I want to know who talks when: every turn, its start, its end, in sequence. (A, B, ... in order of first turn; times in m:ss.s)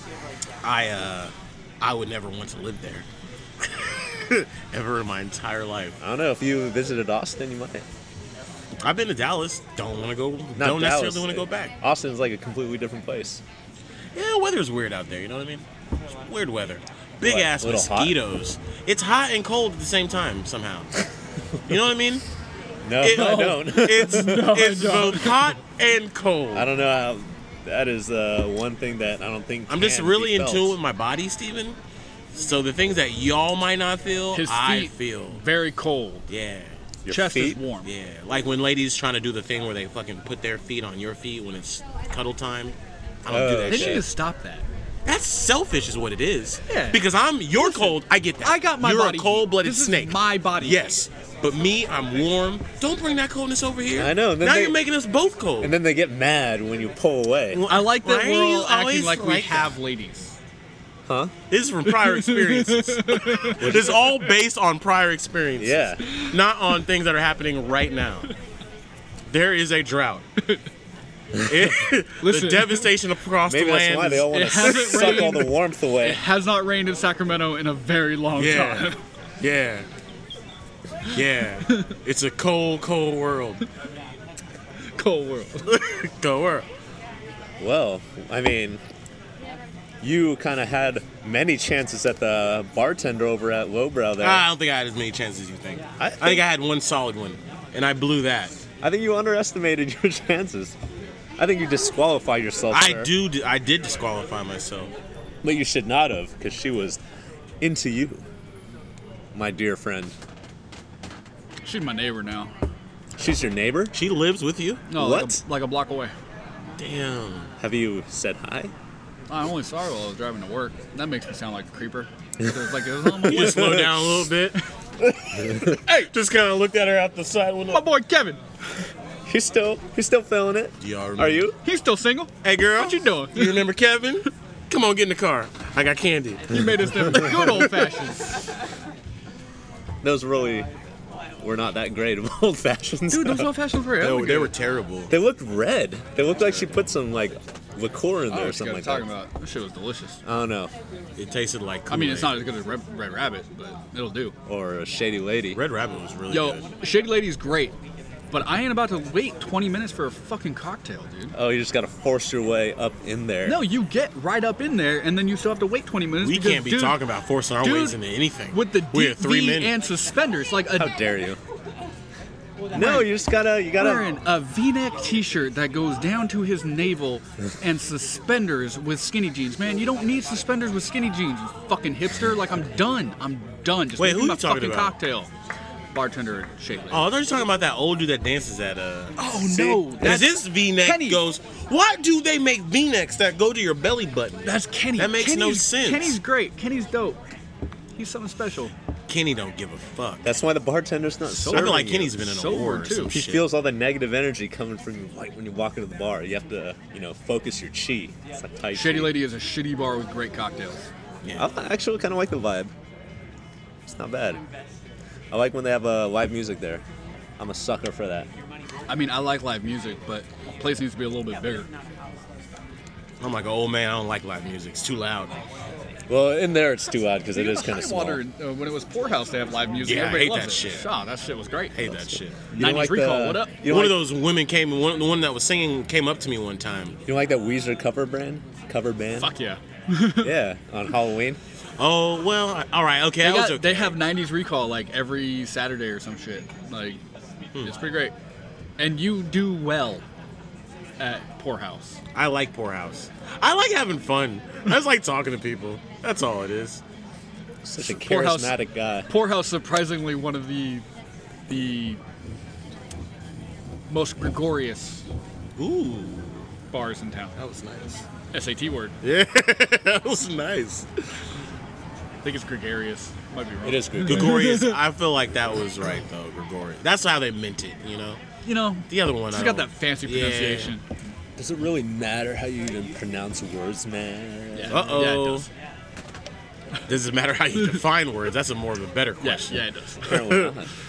0:00.6-0:03.0 A
0:03.6-0:06.0 A
0:06.0-0:07.8 B
0:08.8-0:11.7 A
0:10.6-0:13.4 B
0:14.1-0:20.9 A
0:17.2-0:18.2 B
0:21.6-0:22.2 A
0:22.8-0:24.5 B
0:23.0-0:26.7 A
0:23.1-0:25.5 C
0:26.5-0:30.8 B
0:29.7-0:31.8 A
0:32.3-0:35.4 A
0:34.3-0:36.3 C
0:36.3-0:36.8 A
0:37.0-0:37.6 B
0:37.1-0:37.9 C
0:37.8-0:44.0 A
0:43.3-0:44.0 B
0:43.7-0:44.6 C
0:45.0-0:55.7 A
0:46.7-0:47.0 C
0:47.5-0:50.8 C
0:54.0-0:54.8 B
0:55.6-0:57.6 B
0:57.5-0:59.7 A
0:57.7-1:00.3 C
1:01.0-1:01.3 B
1:01.5-1:08.3 A
1:01.8-1:03.8 C
1:03.6-1:04.0 B
1:05.6-1:06.0 B
1:09.3-1:10.2 A
1:11.4-1:15.3 A
1:12.2-1:12.9 C
1:13.5-1:16.2 B
1:14.3-1:19.0 C
1:18.4-1:19.8 A
1:21.1-1:23.6 A
1:24.9-1:25.7 C
1:25.6-1:26.6 A
1:27.6-1:28.8 B
1:30.0-1:34.4 B
1:34.2-1:38.5 A
1:36.0-1:36.4 B
1:38.8-1:40.7 B
1:41.4-1:43.1 B
1:42.7-1:44.9 A
1:45.4-1:47.0 B
1:47.6-1:48.2 B
1:49.3-1:50.1 B
1:51.6-1:52.5 C
1:53.2-1:53.9 B
1:53.9-1:54.8 A
1:54.9-1:56.1 C
1:54.9-1:55.4 B
1:56.8-1:57.5 A
1:57.6-1:58.7 B
1:59.3-2:03.8 C
2:03.2-2:04.1 B
2:03.3-2:04.6 A
2:05.3-2:05.8 B
2:05.4-2:07.8 A
2:05.8-2:06.1 C
2:07.7-2:08.4 C
2:09.2-2:11.6 B
2:10.8-2:11.5 A
2:11.6-2:13.6 C
2:12.4-2:16.6 A
2:16.5-2:18.5 C
2:20.0-2:20.7 B
2:21.4-2:23.5 B
2:23.1-2:24.5 C
2:24.0-2:25.1 A
2:25.1-2:29.0 B
2:28.3-2:30.2 C
2:30.2-2:30.7 B
2:31.2-2:32.4 A
2:31.9-2:34.3 C
2:34.4-2:35.6 B
2:35.5-2:36.7 A
2:36.3-2:37.7 C
2:38.3-2:41.3 C
2:41.3-2:43.6 B
2:43.4-2:47.0 C
2:46.2-2:49.7 A
2:47.6-2:48.0 C
2:48.5-2:50.9 C
2:50.7-2:51.4 B
2:52.7-2:53.1 C
2:52.7-2:54.1 B
2:53.7-3:05.3 C
3:04.0-3:04.9 A
3:05.9-3:07.1 C
3:06.9-3:16.2 A
3:09.2-3:11.2 C
3:14.4-3:17.2 C
3:18.0-3:18.7 C
3:19.1-3:20.3 A
3:20.2-3:22.1 B
3:21.3-3:23.1 C
3:21.4-3:23.4 A
3:23.1-3:29.2 B
3:28.7-3:30.8 C
3:31.2-3:31.5 A
3:31.4-3:32.7 B
3:33.8-3:34.4 B
3:35.3-3:36.8 B
3:37.4-3:38.3 B
3:38.9-3:41.7 C
3:43.2-3:45.4 A
3:46.1-3:48.2 B
3:47.3-3:51.9 C
3:49.8-3:50.8 A
3:51.7-3:52.4 A
3:52.5-3:53.6 C
3:52.5-3:54.0 B
3:53.6-3:57.0 A
3:57.0-3:59.3 B
3:59.2-4:00.4 C
4:00.2-4:01.4 B
4:01.8-4:04.0 A
4:03.2-4:07.0 C
4:07.6-4:08.1 C
4:08.8-4:10.0 C
4:11.0-4:12.0 C
4:12.1-4:16.8 A
4:17.6-4:19.1 B
4:17.8-4:18.6 C
4:19.1-4:20.8 C
4:21.5-4:22.0 C
4:23.9-4:25.0 C
4:25.6-4:26.5 A
4:26.7-4:27.4 C
4:27.4-4:28.0 A
4:28.3-4:28.9 C
4:29.0-4:30.9 A
4:32.2-4:34.8 C
4:33.6-4:34.4 B
4:34.0-4:38.2 A
4:38.4-4:40.8 C
4:38.9-4:40.7 A
4:41.4-4:44.9 B
4:44.5-4:45.4 C
4:44.7-4:45.5 A
4:46.9-4:50.5 A
4:49.2-4:50.3 C
4:50.0-4:50.7 B